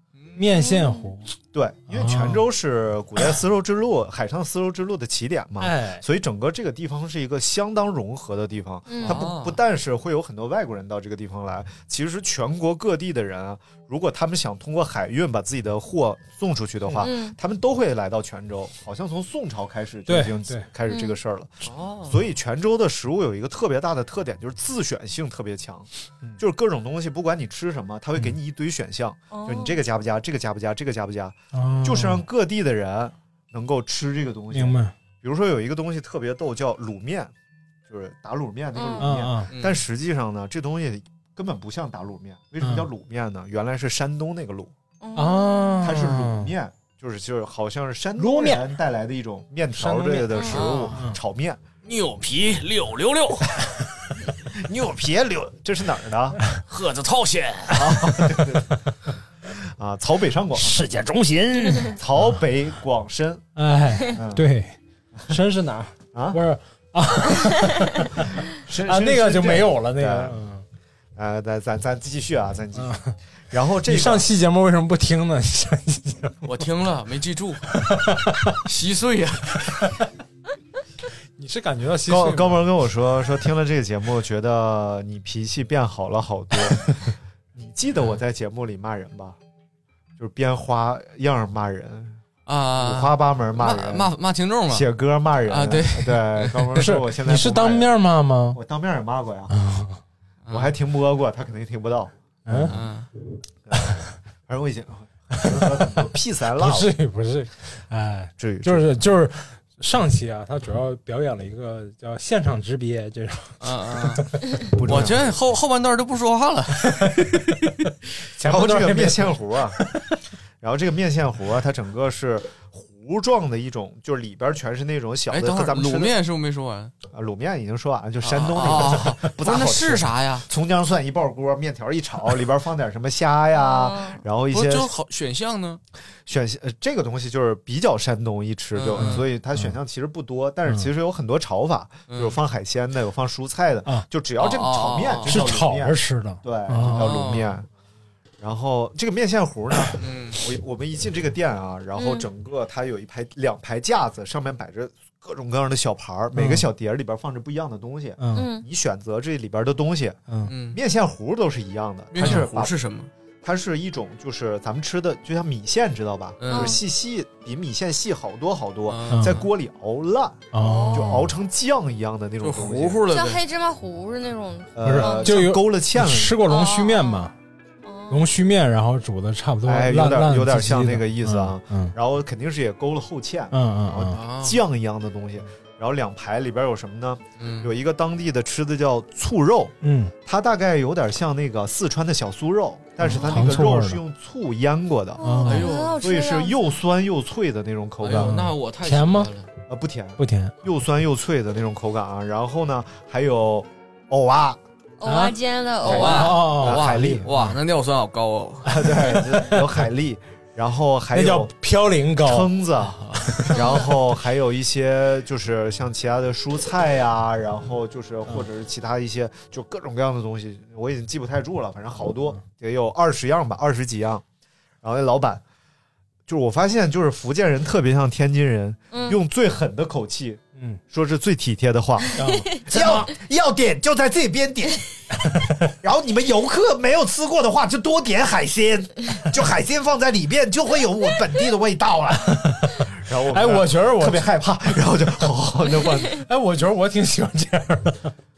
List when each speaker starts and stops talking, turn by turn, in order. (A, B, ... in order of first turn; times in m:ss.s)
0:00.2-0:00.4 A
0:00.4-0:01.3 B
0:00.5-0:01.1 C
0:01.5-0:37.3 D
0:01.9-0:02.4 B
0:05.6-0:06.0 B
0:08.9-0:09.2 C
0:09.0-0:09.6 A
0:16.8-0:17.1 B
0:17.0-0:17.4 C
0:20.1-0:20.7 B
0:20.9-0:21.2 C
0:21.6-0:22.2 A
0:29.3-0:29.8 C
0:31.5-0:32.2 B
0:34.5-0:34.9 B
0:37.9-0:44.7 D
0:38.7-0:39.1 C
0:39.0-0:39.5 B
0:39.5-0:39.8 A
0:42.6-0:42.9 B
0:45.0-0:45.9 C
0:45.2-0:46.5 B
0:45.8-0:51.6 D
0:48.2-0:48.6 B
0:49.8-0:51.2 B
0:50.4-0:50.6 C
0:50.5-0:50.9 A
0:51.8-0:53.8 A
0:54.6-0:56.4 D
0:56.6-0:57.8 A
0:57.7-0:58.8 D
0:58.0-0:58.5 B
0:59.5-1:00.8 D
1:00.6-1:02.3 B
1:01.9-1:03.4 D
1:03.6-1:04.8 B
1:04.1-1:04.5 D
1:05.3-1:08.3 B
1:06.1-1:06.4 D
1:08.5-1:10.4 D
1:08.8-1:10.6 B
1:11.2-1:14.3 D
1:12.8-1:13.2 B
1:13.9-1:16.4 B
1:16.4-1:17.6 A
1:17.8-1:18.6 B
1:18.5-1:19.8 A
1:21.4-1:22.7 B
1:22.1-1:29.4 D
1:30.2-1:32.2 D
1:32.5-1:34.9 A
1:32.8-1:34.1 D
1:34.7-1:37.9 D
1:35.5-1:36.9 A
1:36.8-1:38.6 B
1:38.5-1:39.6 D
1:39.5-1:40.0 B
1:40.5-1:40.7 A
1:40.5-1:42.8 D
1:42.5-1:42.8 B
1:42.7-1:43.1 A
1:43.7-1:46.9 D
1:45.3-1:46.0 B
1:46.6-1:54.4 B
1:48.4-1:49.0 D
1:53.6-1:54.2 A
1:54.8-1:55.3 D
1:54.8-1:57.1 A
1:57.0-1:57.5 B
1:58.3-2:00.1 B
1:58.4-1:59.8 D
2:00.6-2:06.2 D
2:05.3-2:06.9 A
2:07.1-2:14.9 D
2:08.2-2:10.4 A
2:13.5-2:14.2 C
2:14.5-2:15.8 A
2:16.3-2:27.7 D
2:18.8-2:19.3 A
2:19.0-2:19.8 B
2:22.1-2:22.4 A
2:24.4-2:25.4 A
2:25.3-2:27.2 B
2:26.8-2:27.5 A
2:28.4-2:42.8 D
2:30.0-2:30.4 A
2:32.0-2:32.3 C
2:36.4-2:36.6 B
2:38.2-2:38.5 B
2:38.3-2:38.7 C
2:40.5-2:40.8 A
2:42.1-2:43.1 A
2:42.2-2:42.4 B
2:43.4-2:53.0 D
2:46.4-2:46.8 A
2:46.5-2:46.8 C
2:48.9-2:49.5 A
2:49.1-2:49.4 B
2:50.5-2:51.3 B
2:50.6-2:51.1 C
2:52.4-2:53.4 A
2:53.1-2:55.3 C
2:54.8-2:56.4 D
2:54.8-2:57.4 B
2:56.5-2:57.3 C
2:57.8-2:58.3 C
2:58.1-3:02.0 B
2:59.7-3:15.2 D
3:03.5-3:04.2 B
3:04.1-3:04.6 A
3:07.4-3:07.7 A
3:09.8-3:10.1 B
3:13.0-3:14.0 B
3:15.2-3:16.6 C
3:15.2-3:15.7 B
3:15.4-3:16.0 A
3:16.0-3:18.3 D
3:18.0-3:19.5 A
3:18.1-3:19.3 B
3:19.7-3:24.6 D
3:20.2-3:20.6 B
3:25.0-3:26.4 C
3:25.0-3:25.4 B
3:25.8-3:28.7 A
3:25.9-3:27.3 D
3:25.9-3:27.6 B
3:28.7-3:31.5 D
3:28.7-3:29.9 B
3:31.1-3:32.5 B
3:32.2-3:44.2 D
3:33.5-3:33.9 C
3:44.8-3:45.4 D
3:46.3-4:06.2 D
3:48.9-3:49.2 C
3:52.2-3:53.1 B
3:55.2-3:55.7 B
4:02.3-4:04.3 B
4:06.3-4:08.1 B